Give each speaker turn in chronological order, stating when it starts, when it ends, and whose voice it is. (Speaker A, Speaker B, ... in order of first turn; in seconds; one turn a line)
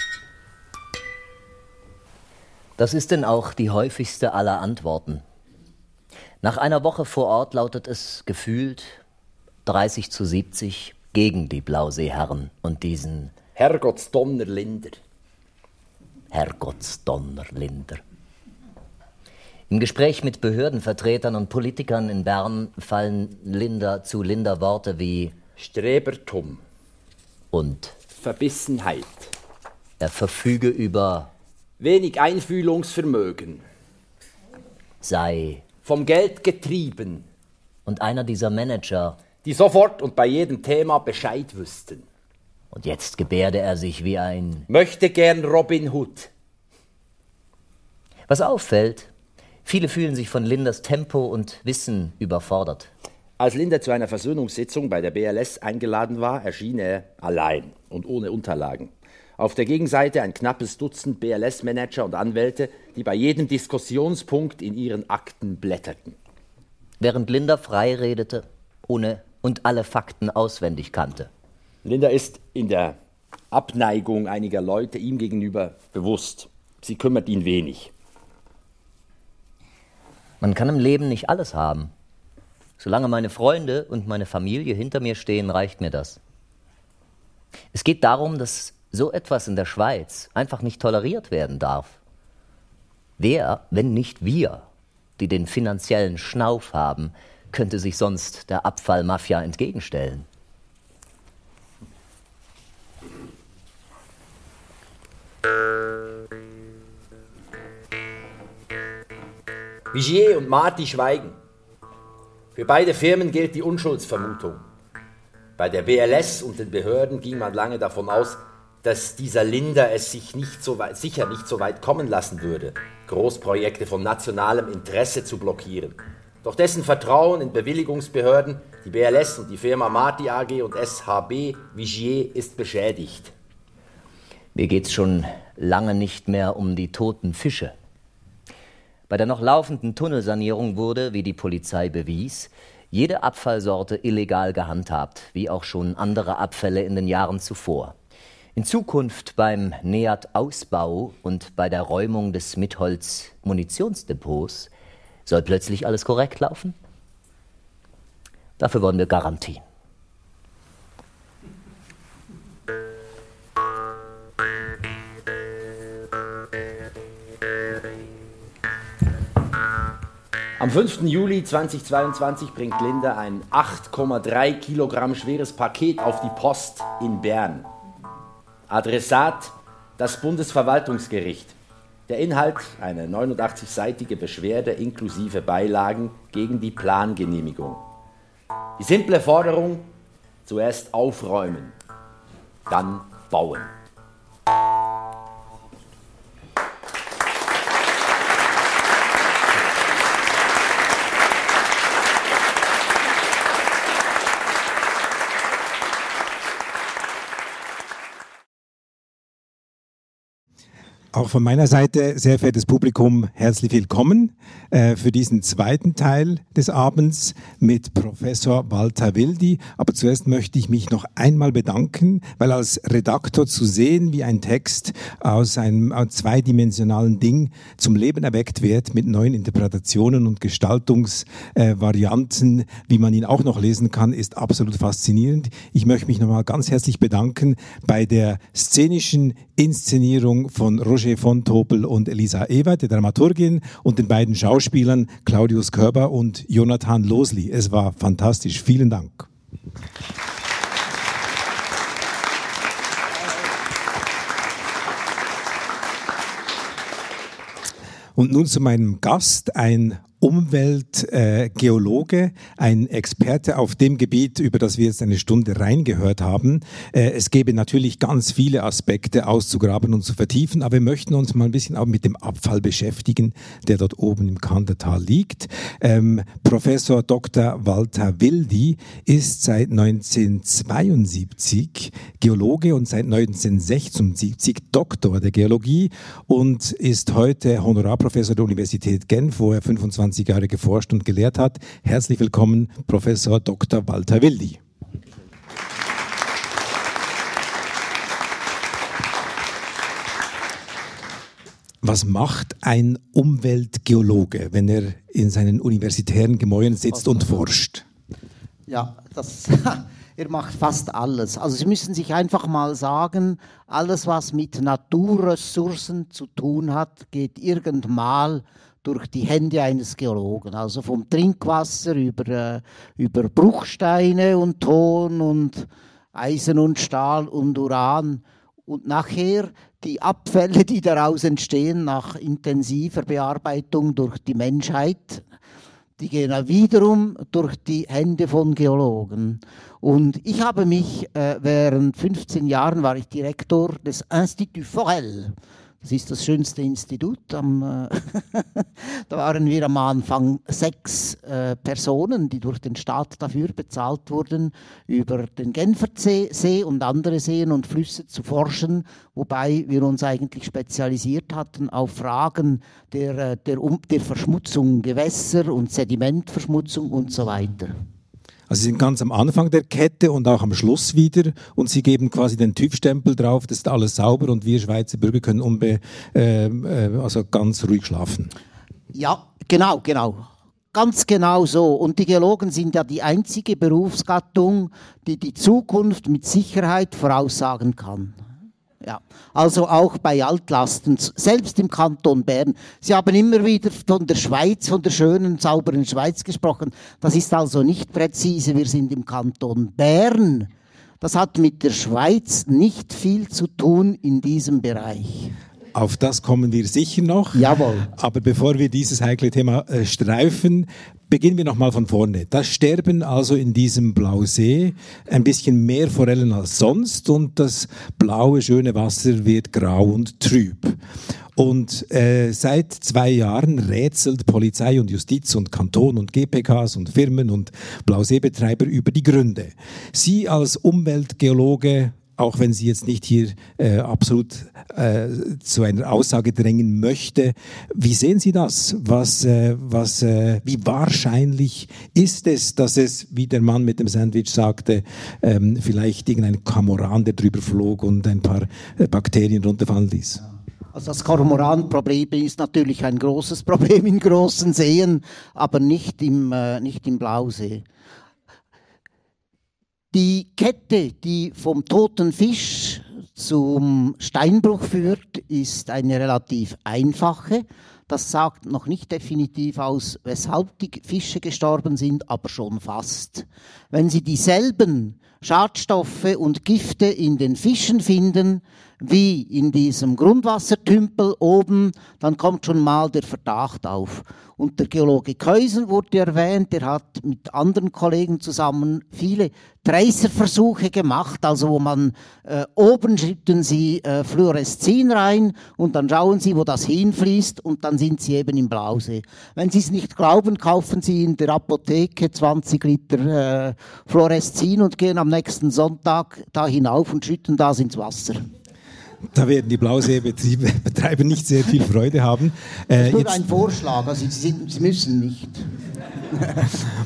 Speaker A: 2.8-5.2
Speaker A: 6.4-9.0
Speaker A: 9.7-13.3
Speaker B: 13.6-15.0
Speaker A: 16.3-18.0
Speaker A: 19.7-25.4
Speaker B: 25.6-26.6
Speaker A: 27.5-28.0
Speaker B: 28.2-29.3
Speaker A: 30.0-31.3
Speaker B: 31.8-33.6
Speaker A: 35.0-35.6
Speaker B: 35.8-37.3
Speaker A: 37.9-39.2
Speaker B: 39.4-42.1
Speaker A: 42.7-44.7
Speaker B: 44.7-46.3
Speaker A: 48.3-49.1
Speaker A: 49.6-52.9
Speaker B: 53.4-66.2
Speaker A: 67.0-71.3
Speaker B: 71.8-73.0
Speaker B: 73.5-77.9
Speaker A: 80.4-81.9
Speaker A: 82.8-86.2
Speaker A: 87.7-92.0
Speaker A: 93.2-94.7
Speaker A: 95.2-100.3
Speaker B: 109.9-111.4
Speaker B: 112.5-114.6
Speaker B: 115.6-133.3
Speaker A: 134.6-137.7
Speaker A: 139.1-147.9
Speaker A: 148.6-154.7
Speaker A: 155.3-156.8
Speaker A: 158.6-159.6
Speaker B: 170.6-177.7
Speaker B: 178.7-181.6
Speaker B: 182.1-187.8
Speaker B: 188.8-189.9
Speaker B: 190.4-191.8
Speaker B: 192.7-193.7
Speaker C: 211.1-249.3
Speaker C: 258.2-294.6
Speaker C: 301.8-307.8
Speaker D: 308.7-335.2
Speaker D: 336.0-367.7
Speaker C: 368.5-378.3
Speaker D: 378.9-388.2
Speaker D: 388.8-400.5
Speaker D: 401.0-405.4
Speaker C: 405.7-420.8
Speaker D: 407.3-407.9
Speaker C: 421.4-450.2
Speaker D: 450.7-457.6
Speaker D: 459.9-508.2
Speaker C: 509.1-513.3
Speaker D: 512.8-515.5
Speaker D: 516.1-516.5